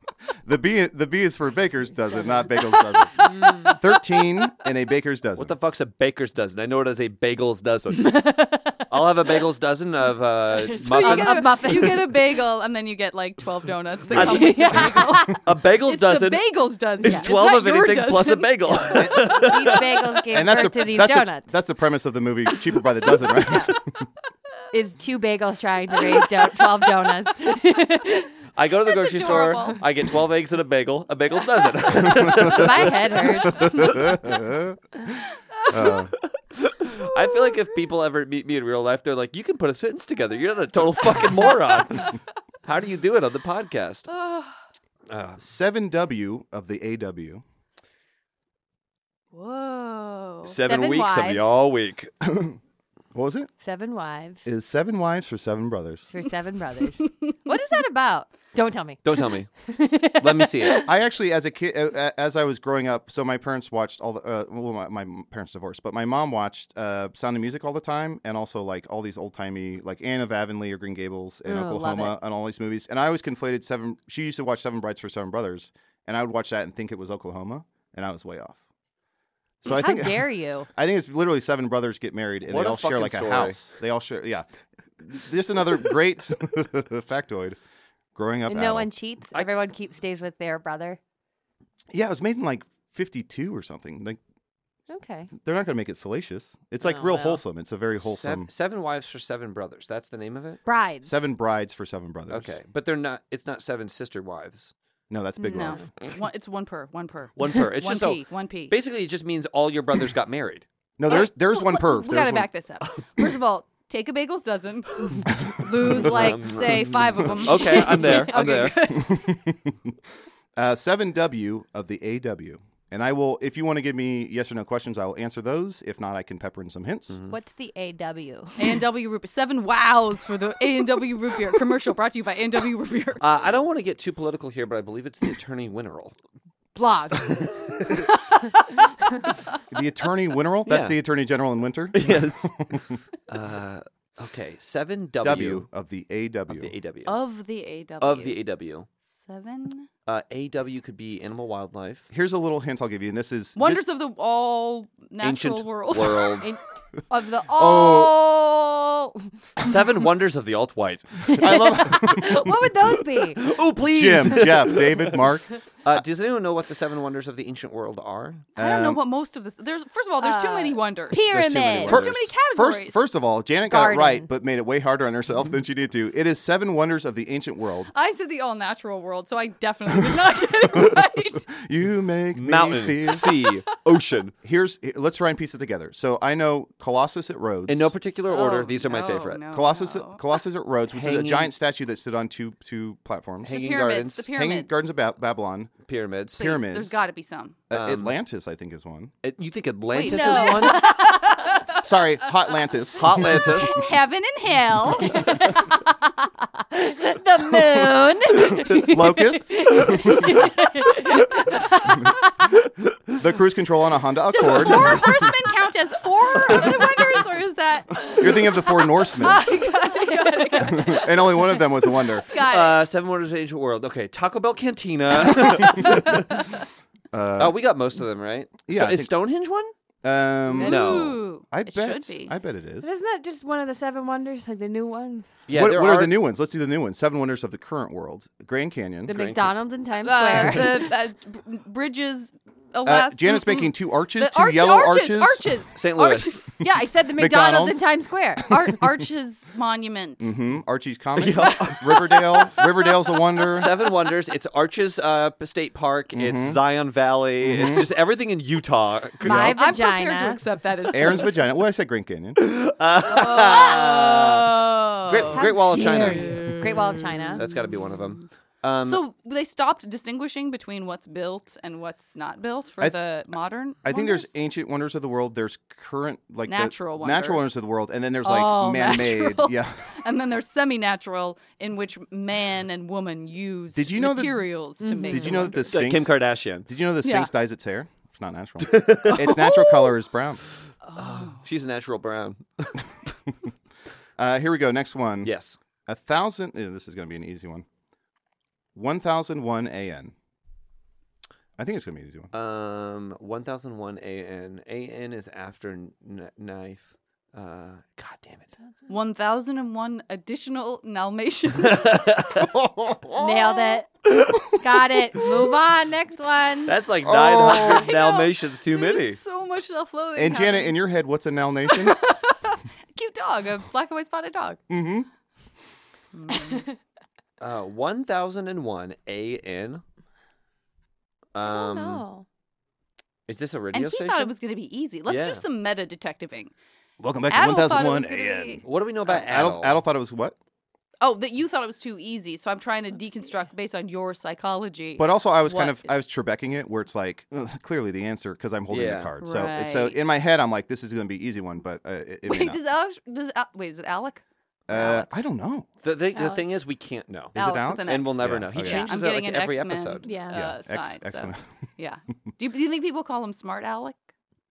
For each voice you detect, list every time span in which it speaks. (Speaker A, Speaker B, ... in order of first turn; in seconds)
Speaker A: 0.5-5.6, 14.1-14.4, 18.9-19.4, 20.3-23.8, 32.1-32.5, 33.5-34.8, 35.7-36.1, 45.4-47.4, 52.2-52.6, 53.1-53.5, 54.5-56.1, 60.9-78.6, 79.6-84.5, 85.0-87.6, 88.2-88.9, 91.9-94.2, 95.3-98.5, 101.0-102.6, 105.1-105.9, 111.0-112.5, 118.9-119.9, 120.6-127.2, 139.7-143.0, 145.2-146.7, 152.1-153.8, 157.5-158.2, 161.3-162.9, 163.8-166.0, 168.6-169.0, 171.9-177.9, 180.7-183.4, 184.4-187.9, 189.5-195.8, 196.4-197.0, 197.7-199.1, 201.7-203.8, 207.5-210.4, 213.2-215.3, 218.0-219.5, 220.6-222.3, 225.7-226.2, 227.1-227.6, 228.7-229.1, 230.0-232.9, 235.5-239.3, 242.8-245.6, 247.2-247.8, 248.4-248.8, 250.2-253.8, 256.1-256.6, 257.4-257.9, 259.2-259.6, 260.9-262.4, 273.8-280.0, 283.8-284.5, 285.1-290.4, 294.2-295.3, 295.9-297.6, 298.8-300.1, 301.6-302.3, 317.0-317.9, 320.2-322.0, 324.7-325.1, 337.0-340.4, 345.0-352.6, 354.7-355.7, 357.3-358.9, 360.3-361.4
Speaker B: 3.2-3.8, 8.0-8.9, 10.5-12.2, 14.2-15.4, 17.0-17.3, 18.7-21.5, 23.3-23.8, 24.7-28.4, 32.3-34.1, 50.6-51.6, 53.6-54.5, 56.1-60.9, 71.5-72.2, 79.7-80.7, 88.5-91.0, 94.9-95.3, 96.8-97.4, 100.7-101.2, 105.6-105.8, 127.3-128.8, 136.8-137.6, 156.4-159.3, 161.3-163.6, 164.3-164.8, 170.2-172.0, 173.7-174.3, 199.9-201.5, 205.1-212.2, 219.9-220.8, 230.6-231.2, 232.8-235.4, 239.1-240.9, 246.6-248.5, 259.2-260.4, 265.3-267.4, 284.8-285.5, 313.1-316.8, 331.4-332.3, 356.1-356.5, 360.0-360.4
Speaker C: 5.4-11.9, 14.1-16.5, 17.0-20.2, 28.5-33.2, 36.5-44.1, 45.1-45.4, 50.5-52.1, 59.0-59.5, 60.1-60.9, 82.5-83.6, 98.0-100.6, 102.3-104.7, 107.4-110.7, 115.8-118.8, 133.2-136.2, 137.2-137.9, 140.7-141.0, 141.9-142.6, 143.3-145.7, 146.5-147.2, 148.0-148.9, 150.1-152.1, 155.2-156.5, 159.6-161.7, 163.4-165.3, 165.8-168.5, 171.2-172.3, 182.4-184.3, 187.7-189.4, 190.9-191.5, 193.4-194.3, 195.9-196.5, 197.7-198.1, 199.2-201.1, 203.0-203.8, 222.3-226.4, 227.4-229.7, 230.6-231.2, 235.5-236.2, 239.2-239.5, 245.8-246.4, 251.2-252.5, 253.4-259.6, 262.4-269.0, 285.6-286.7, 288.6-289.4, 290.9-292.8, 295.2-295.6, 302.3-308.5, 311.6-312.6, 316.7-319.2, 327.4-329.8, 331.3-332.1, 333.3-334.3, 335.1-335.4, 338.6-339.8, 348.7-349.1, 355.8-360.1
Speaker D: 10.8-18.6, 28.9-29.8, 44.1-44.5, 49.3-50.5, 57.0-57.4, 105.4-108.8, 111.1-119.4, 128.6-133.4, 147.1-148.4, 149.1-149.9, 153.6-156.4, 168.6-171.3, 171.9-173.1, 177.9-181.5, 188.3-190.2, 193.4-194.8, 196.4-197.6, 199.9-201.8, 203.6-205.3, 214.3-222.8, 230.6-232.3, 240.0-246.5, 248.5-250.3, 251.7-253.6, 259.5-261.4, 263.1-267.4, 268.8-274.3, 276.5-277.6, 278.2-285.7, 287.0-287.3, 289.1-289.9, 290.9-291.4, 308.9-312.3, 317.5-320.8, 321.7-324.6, 326.1-326.6, 333.7-336.5, 337.3-338.6, 341.0-345.9, 349.2-350.1, 352.3-355.2, 357.4-364.0